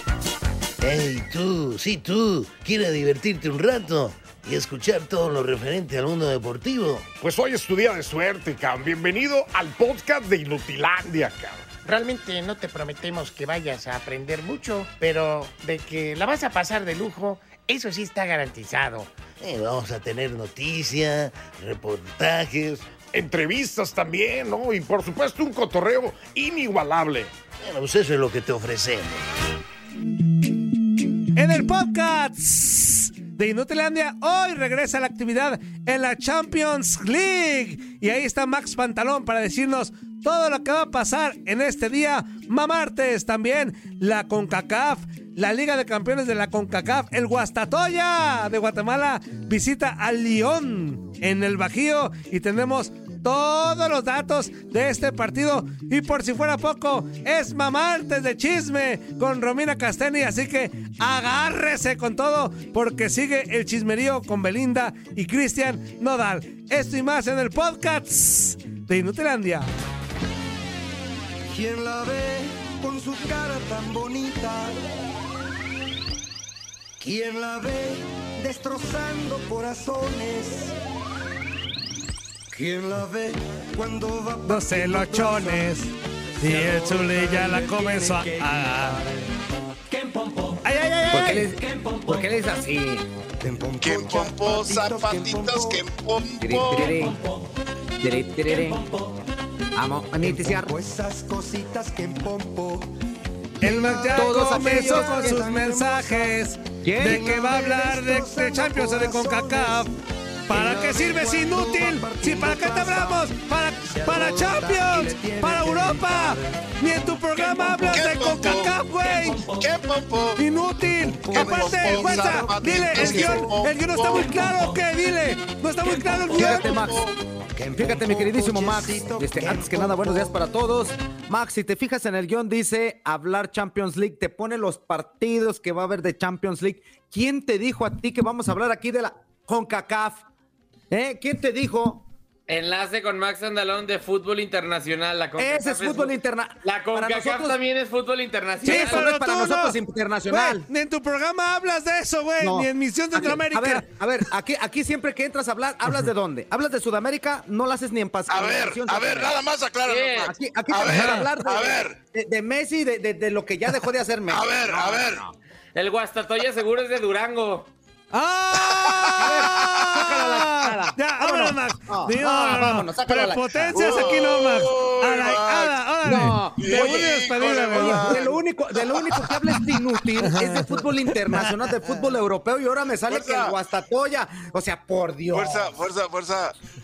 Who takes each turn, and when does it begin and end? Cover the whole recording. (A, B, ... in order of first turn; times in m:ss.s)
0:00.8-0:07.1 A
0:07.2-0:11.6 B
0:11.8-0:19.1 C
0:19.4-0:22.9 A
0:23.1-0:27.3 B
0:27.6-0:29.2 A
0:31.4-1:09.7 D
1:11.5-1:14.8 E
1:17.0-1:20.7 E
1:22.5-1:25.8 E
1:24.4-1:29.0 D
1:26.4-1:29.4 E
1:29.9-1:30.6 E
1:30.6-1:31.5 D
1:31.1-1:33.1 F
1:31.5-1:32.3 E
1:33.4-1:35.8 E
1:33.8-1:37.0 G
1:36.4-1:37.2 F
1:36.8-1:37.2 E
1:38.0-1:38.8 F
1:38.4-1:39.1 E
1:39.7-1:40.7 F
1:40.2-1:42.9 E
1:43.6-1:49.9 D
1:43.6-1:46.4 E
1:44.1-1:45.4 F
1:46.8-1:47.4 F
1:47.0-1:49.9 E
1:50.5-1:59.5 D
1:50.5-1:58.1 E
1:57.8-1:58.8 G
1:59.0-1:59.4 E
1:59.4-2:00.4 G
2:00.4-2:06.6 D
2:00.8-2:04.8 E
2:01.3-2:04.3 G
2:05.8-2:07.0 E
2:06.3-2:07.0 F
2:06.3-2:07.2 G
2:07.6-2:20.2 F
2:07.7-2:10.4 E
2:20.9-2:22.0 F
2:22.5-2:29.1 H
2:25.4-2:27.6 F
2:28.6-2:30.7 F
2:28.6-2:33.9 D
2:32.4-2:39.4 F
2:38.3-2:42.0 G
2:39.8-2:40.3 H
2:40.3-2:45.3 F
2:40.9-2:41.3 D
2:44.3-2:45.2 G
2:45.7-2:47.7 H
2:48.1-2:58.2 D
2:48.7-2:49.0 G
2:49.1-2:54.3 F
2:53.7-2:55.9 G
2:56.0-2:57.1 F
2:56.6-2:59.2 G
2:57.7-3:05.7 F
3:00.2-3:01.9 D
3:03.1-3:03.6 G
3:05.3-3:06.5 G